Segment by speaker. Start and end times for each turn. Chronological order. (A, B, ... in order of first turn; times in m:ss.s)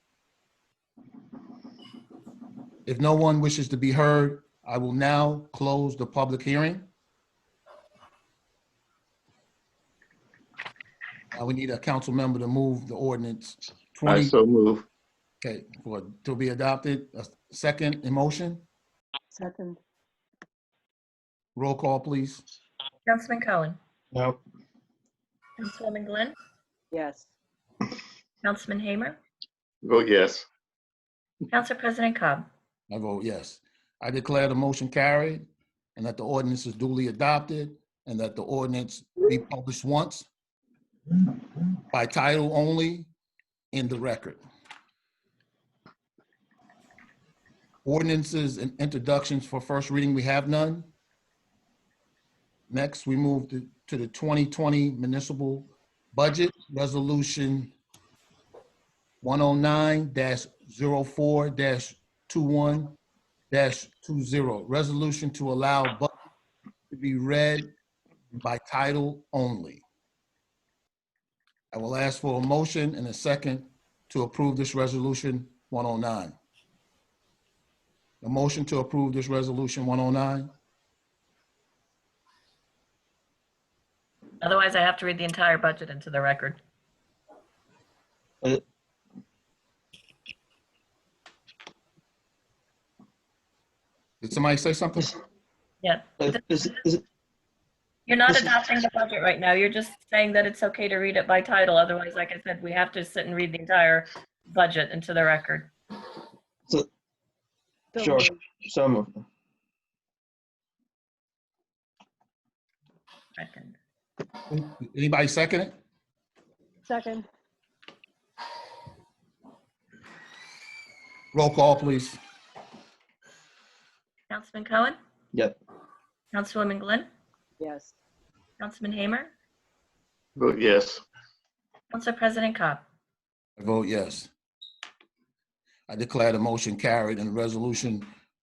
0:02.9-0:06.9 A
0:11.3-0:14.3 A
0:14.1-0:14.8 B
0:15.4-0:18.6 A
0:19.3-0:19.8 C
0:21.6-0:22.4 A
0:23.1-0:23.8 D
0:24.1-0:24.4 E
0:25.6-0:26.4 D
0:26.9-0:27.3 C
0:28.4-0:29.2 D
0:29.8-0:30.4 B
0:31.5-0:32.5 D
0:32.9-0:40.3 A
0:41.9-0:43.1 A
0:43.7-0:44.4 A
0:47.8-0:50.9 A
0:52.7-0:57.8 A
0:59.2-1:03.0 A
1:03.5-1:06.1 A
1:06.9-1:07.7 A
1:08.4-1:09.8 A
1:11.7-1:16.4 A
1:18.2-1:20.5 A
1:24.4-1:26.6 D
1:34.2-1:35.2 A
1:35.8-1:36.4 D
1:36.2-1:37.0 E
1:38.1-1:45.7 D
1:38.3-1:38.6 E
1:47.9-1:48.4 C
1:48.0-1:49.2 E
1:53.4-1:53.8 D
1:54.5-1:55.7 A
1:56.9-1:57.3 C
2:01.3-2:02.2 A
2:04.3-2:05.0 D
2:06.3-2:07.1 D
2:07.6-2:08.0 C
2:08.6-2:09.3 D
2:10.4-2:11.0 B
2:11.9-2:12.8 D
2:13.6-2:14.3 A
2:15.9-2:18.1 A